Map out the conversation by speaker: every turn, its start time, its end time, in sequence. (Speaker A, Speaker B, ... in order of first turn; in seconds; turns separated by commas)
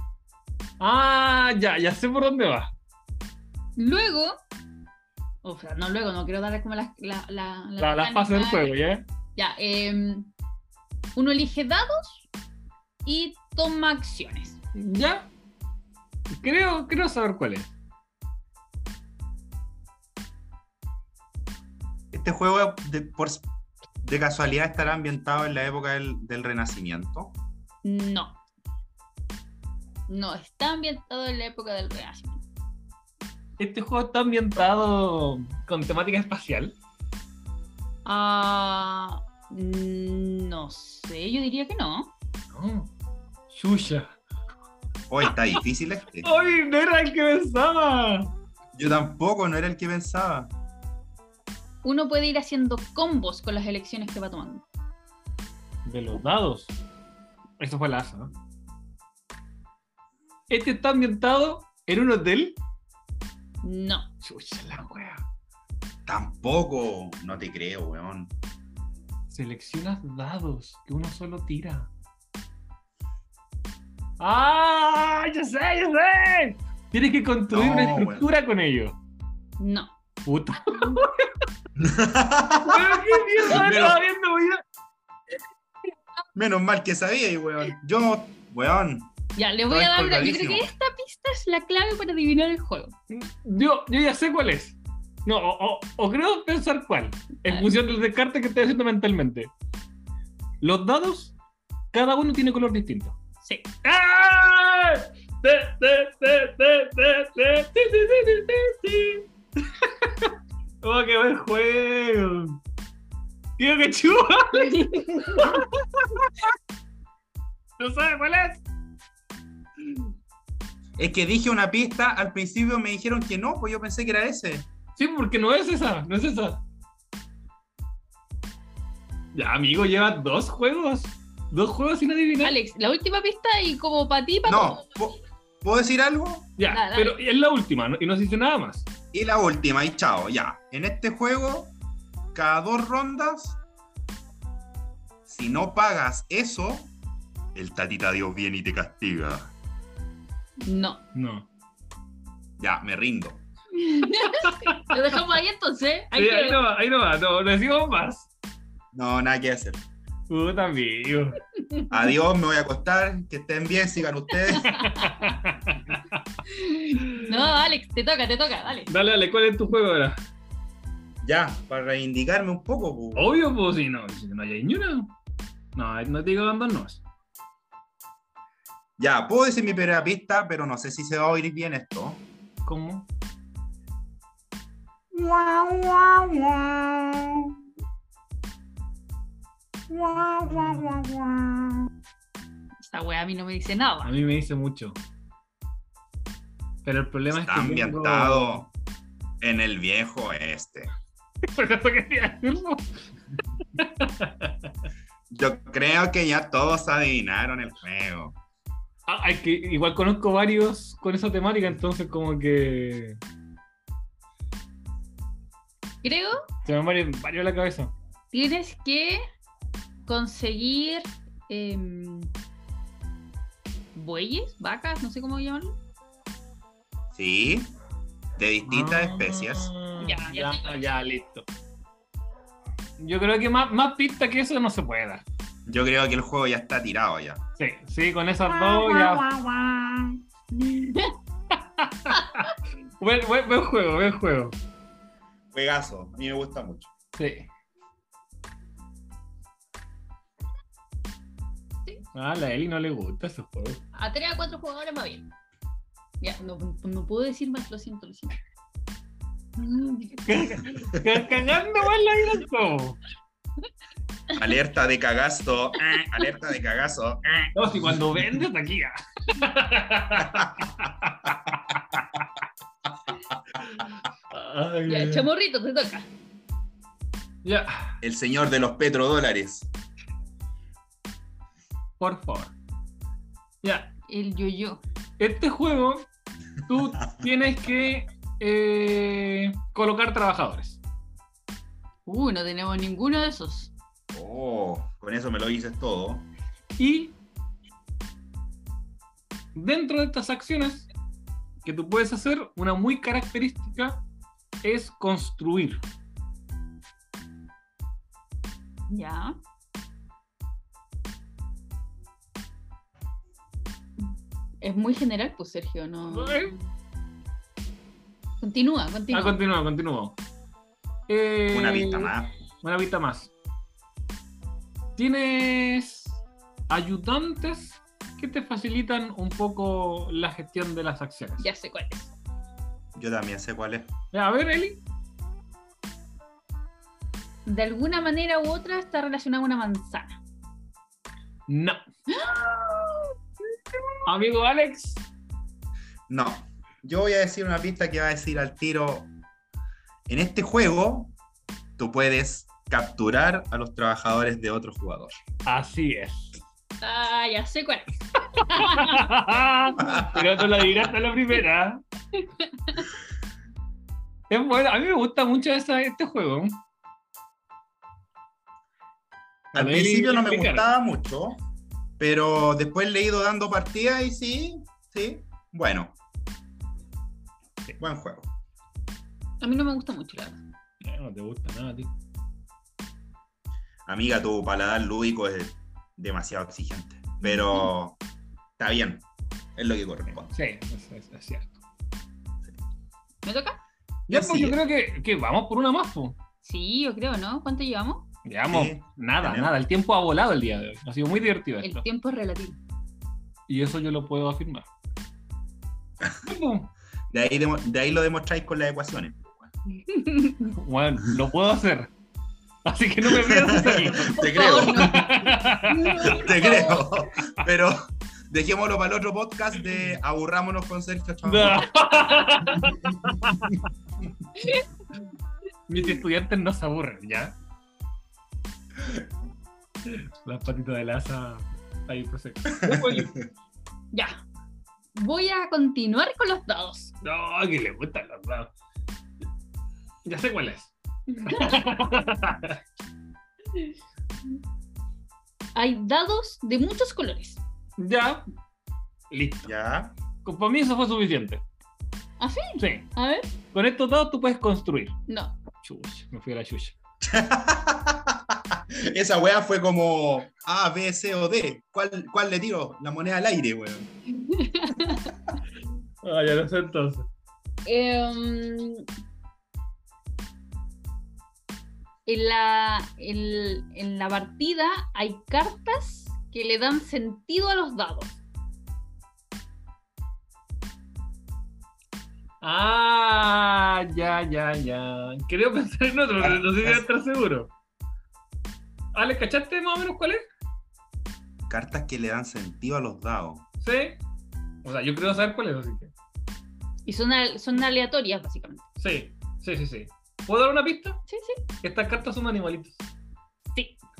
Speaker A: 0.8-2.7, Speaker B: 3.8-4.4, Speaker B: 5.4-8.7, Speaker A: 7.8-9.1, Speaker B: 9.4-10.3, Speaker B: 11.2-12.3, Speaker B: 13.1-14.6, Speaker A: 14.8-15.3, Speaker A: 16.3-17.7, Speaker C: 22.1-23.4, Speaker C: 24.0-27.4, Speaker B: 27.8-28.4, Speaker B: 30.1-32.4, Speaker A: 33.6-36.8, Speaker B: 38.0-42.1, Speaker A: 42.5-42.9, Speaker A: 43.5-44.2, Speaker C: 45.1-46.3, Speaker A: 46.2-48.3, Speaker C: 48.7-50.5, Speaker B: 51.8-54.6, Speaker A: 55.9-56.7, Speaker A: 57.6-58.3, Speaker A: 60.5-62.6, Speaker B: 63.6-64.1, Speaker A: 64.2-65.2, Speaker C: 66.1-68.3, Speaker A: 69.3-71.9, Speaker A: 74.2-79.0, Speaker C: 77.5-78.3, Speaker B: 79.6-79.9, Speaker A: 80.2-81.1, Speaker C: 81.8-84.0, Speaker A: 82.6-84.6, Speaker C: 86.3-89.1, Speaker B: 89.4-92.9, Speaker C: 89.7-90.7, Speaker A: 93.1-99.5, Speaker A: 100.6-101.3, Speaker A: 101.9-103.2, Speaker B: 103.4-103.7, Speaker A: 103.8-112.6, Speaker A: 113.6-116.3, Speaker B: 114.5-115.5, Speaker A: 117.8-118.6, Speaker C: 121.0-124.7, Speaker A: 125.0-126.6, Speaker A: 129.3-132.6, Speaker B: 132.4-134.8, Speaker C: 134.5-136.5, Speaker A: 136.6-138.9, Speaker B: 136.7-137.2, Speaker C: 139.1-141.7, Speaker C: 142.3-143.6, Speaker C: 145.3-146.9, Speaker C: 147.6-149.5, Speaker B: 150.6-151.0, Speaker A: 151.2-151.5, Speaker C: 152.6-153.4, Speaker B: 153.8-156.6, Speaker A: 154.4-154.8, Speaker A: 156.1-158.3, Speaker C: 158.9-159.8, Speaker A: 160.3-161.4, Speaker C: 161.9-164.8, Speaker B: 164.6-165.3, Speaker A: 164.7-166.2, Speaker B: 166.5-168.9, Speaker A: 168.9-170.2, Speaker C: 171.2-173.3, Speaker A: 173.2-175.1, Speaker A: 175.8-177.0, Speaker C: 179.0-182.2, Speaker A: 182.7-183.1, Speaker C: 185.1-187.6, Speaker C: 189.9-191.9, Speaker A: 190.4-191.1, Speaker B: 192.8-194.1, Speaker A: 194.0-195.0, Speaker A: 196.8-198.6, Speaker C: 197.3-198.7, Speaker C: 199.4-200.9, Speaker A: 201.4-202.9, Speaker A: 203.8-204.7, Speaker C: 205.3-208.4, Speaker A: 209.1-213.2, Speaker B: 216.0-216.4, Speaker A: 216.7-217.9, Speaker B: 218.3-219.2, Speaker B: 220.1-222.3, Speaker B: 223.9-225.8, Speaker C: 227.2-227.7, Speaker C: 228.4-229.7, Speaker A: 228.7-231.5, Speaker B: 230.0-230.9, Speaker A: 233.0-235.2, Speaker C: 235.7-237.4, Speaker A: 237.6-239.9, Speaker B: 238.7-239.2, Speaker B: 240.5-241.1, Speaker A: 241.8-244.6, Speaker C: 245.5-246.9, Speaker A: 247.2-247.5, Speaker A: 252.2-253.8, Speaker B: 253.9-255.3, Speaker B: 256.2-258.4, Speaker B: 259.6-260.2, Speaker A: 260.2-263.0, Speaker C: 264.4-267.5, Speaker A: 267.6-272.2, Speaker C: 270.2-270.5, Speaker A: 274.3-275.3, Speaker B: 274.9-276.1, Speaker A: 277.4-277.9, Speaker C: 278.0-279.7, Speaker A: 282.0-282.5, Speaker A: 283.6-283.9, Speaker B: 284.1-284.8, Speaker A: 285.2-286.1, Speaker A: 286.7-290.8, Speaker B: 292.1-293.7, Speaker C: 294.1-296.3, Speaker A: 296.8-297.1, Speaker A: 299.6-300.9, Speaker A: 301.6-304.0, Speaker A: 304.6-305.8, Speaker B: 308.9-309.4, Speaker B: 314.6-316.7, Speaker A: 316.1-316.6, Speaker B: 318.4-319.4, Speaker A: 319.1-320.2, Speaker A: 321.1-323.3, Speaker C: 321.5-322.3, Speaker A: 325.0-331.5, Speaker B: 331.4-332.1, Speaker C: 332.9-333.9, Speaker A: 334.1-334.8, Speaker B: 337.5-340.2, Speaker A: 341.5-341.8, Speaker B: 342.1-343.1, Speaker A: 344.1-345.0, Speaker C: 346.1-349.1, Speaker C: 350.1-351.1, Speaker C: 351.8-355.1, Speaker A: 355.5-356.4, Speaker B: 356.8-359.1, Speaker A: 358.5-361.8, Speaker C: 359.8-360.4, Speaker B: 362.2-362.9, Speaker A: 364.3-366.6, Speaker A: 369.5-370.7, Speaker C: 369.5-371.4, Speaker C: 372.0-376.0, Speaker C: 377.8-378.3, Speaker B: 379.4-380.4, Speaker A: 380.8-381.9, Speaker C: 383.9-388.0, Speaker B: 387.2-387.7, Speaker C: 388.6-390.3, Speaker A: 390.3-391.6, Speaker B: 393.2-393.6, Speaker A: 394.1-396.2, Speaker C: 394.1-394.6, Speaker B: 396.4-398.1, Speaker A: 398.2-401.9, Speaker C: 398.5-399.5, Speaker B: 401.6-402.6, Speaker A: 403.5-404.7, Speaker A: 406.2-406.7, Speaker C: 407.1-409.5, Speaker B: 409.7-410.5, Speaker A: 410.5-411.9, Speaker A: 412.6-416.2, Speaker C: 413.1-415.2, Speaker B: 414.1-416.9, Speaker C: 416.0-421.7, Speaker A: 421.2-423.6, Speaker B: 424.4-424.7, Speaker A: 425.7-427.3, Speaker A: 429.9-433.1, Speaker C: 432.6-433.2, Speaker B: 433.9-434.2, Speaker B: 434.9-436.9, Speaker A: 437.0-438.5, Speaker A: 440.1-440.7, Speaker B: 441.1-441.6, Speaker A: 441.2-442.6, Speaker B: 445.6-447.4, Speaker A: 447.8-448.2, Speaker A: 449.1-449.5, Speaker C: 449.4-449.9, Speaker A: 450.2-451.4, Speaker B: 452.2-453.3, Speaker A: 452.6-452.9, Speaker A: 453.5-455.0, Speaker B: 455.1-455.4, Speaker A: 455.6-456.7, Speaker C: 457.0-463.9, Speaker B: 464.1-465.1, Speaker A: 466.0-467.1, Speaker B: 467.7-468.9, Speaker B: 472.1-478.2, Speaker A: 482.4-487.5, Speaker C: 486.2-486.9, Speaker A: 488.9-490.2, Speaker C: 491.5-493.4, Speaker A: 493.6-494.0, Speaker A: 494.6-495.9, Speaker B: 496.9-498.6, Speaker A: 498.8-501.0, Speaker B: 501.1-501.4, Speaker A: 501.6-502.8, Speaker B: 503.5-503.8